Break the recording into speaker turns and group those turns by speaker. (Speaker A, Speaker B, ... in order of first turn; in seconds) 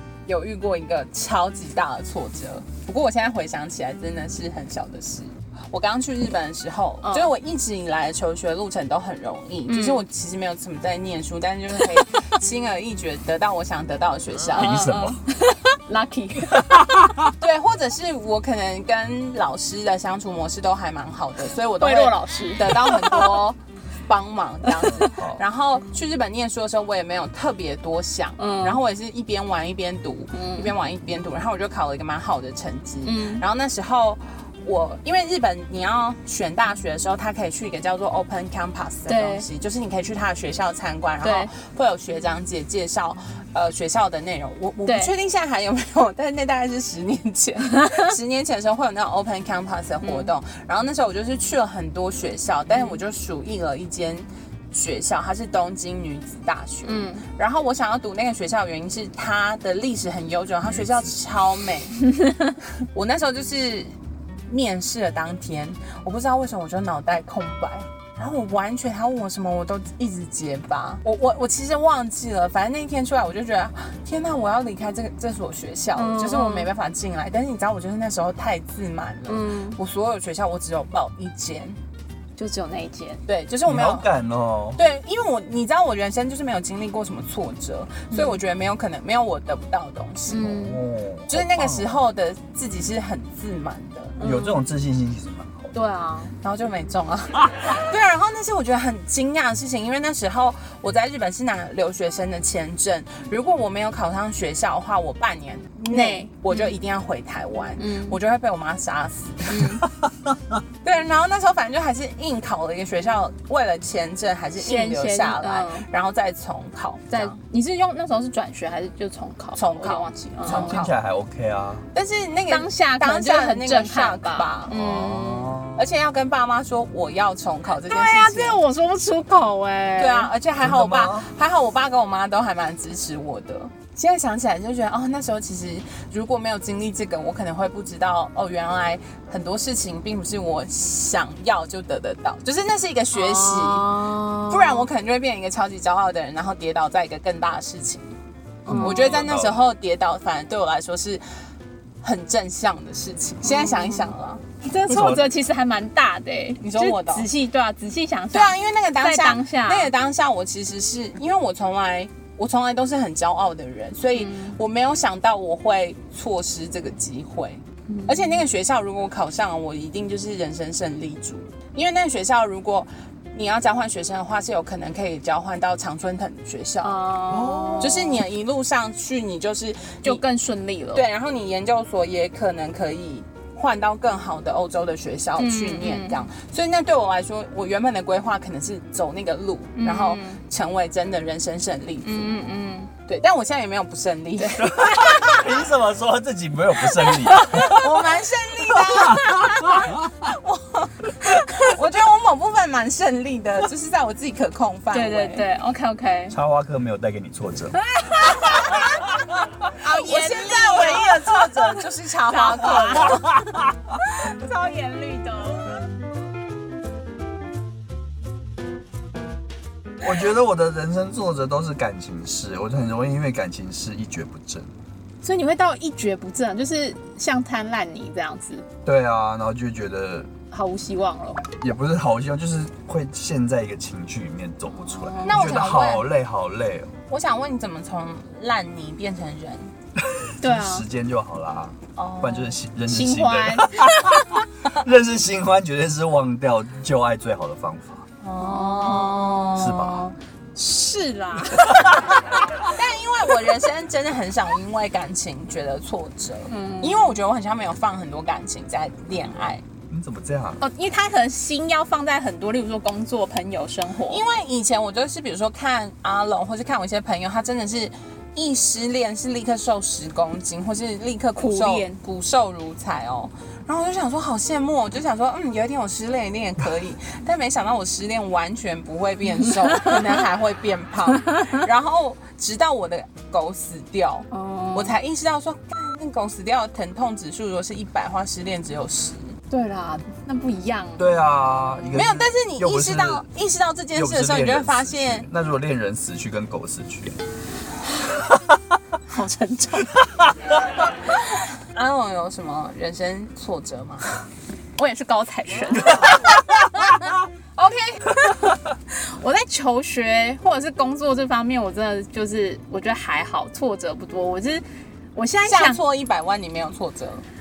Speaker A: 0.3-14.9, 17.4-62.0, 62.9-63.9, 64.5-81.8, 83.3-84.1, 84.8-90.6, 91.3-94.2, 96.4-109.8, 110.8-117.4, 119.5-120.9, 121.9-124.7, 125.7-128.6, 130.0-148.1, 148.8-151.2, 152.0-154.4, 156.6-157.3, 158.3-177.0, 177.8-180.2, 180.9-192.3, 193.1-195.4, 197.3-205.4, 209.8-213.4, 235.2-236.0, 237.1-239.7, 241.9-242.6, 248.2-249.7, 252.6-259.6, 264.1-289.4, 291.9-295.3, 301.7-304.1, 307.6-308.1, 315.4-317.2
Speaker B: 7.0-7.3, 9.7-10.0, 14.6-17.0, 21.8-23.4, 28.4-28.8, 30.3-30.7, 33.0-33.4, 39.1-39.5, 41.2-41.5, 44.9-45.1, 47.8-48.1, 50.0-50.3, 56.8-57.2, 76.0-76.7, 79.3-79.8, 82.4-83.2, 88.1-88.4, 90.3-90.8, 94.2-94.6, 95.7-96.3, 105.9-106.8, 107.8-108.2, 109.5-109.8, 114.6-115.9, 117.1-120.8, 122.5-125.6, 127.8-130.3, 143.1-144.9, 148.7-149.2, 153.4-159.9, 164.1-164.6, 167.9-168.4, 176.8-178.2, 180.0-181.0, 185.4-186.3, 189.8-190.4, 192.0-192.9, 204.9-206.3, 207.8-209.1, 209.8-213.4, 214.0-215.8, 225.2-228.7, 230.5-231.4, 234.7-235.6, 240.4-240.8, 242.9-244.2, 248.3-252.1, 256.5-257.1, 260.6-264.2, 271.4-272.0, 279.4-280.0, 281.3-281.6, 284.3-285.0, 289.5-291.2, 299.1-300.0, 304.8-306.1, 308.2-314.6, 315.1-315.8
Speaker C: 14.6-15.2, 16.6-17.0, 24.8-25.4, 60.6-61.1, 83.7-84.8, 90.4-92.0, 94.2-95.8, 120.4-121.8, 124.7-125.9, 130.6-131.3, 148.7-149.6, 154.8-155.3, 177.3-177.9, 194.6-197.9, 198.7-199.9, 206.3-207.8, 220.0-224.7, 228.8-230.3, 231.6-236.9, 240.0-248.0, 249.5-250.1, 259.9-260.6, 291.0-293.3, 293.9-297.2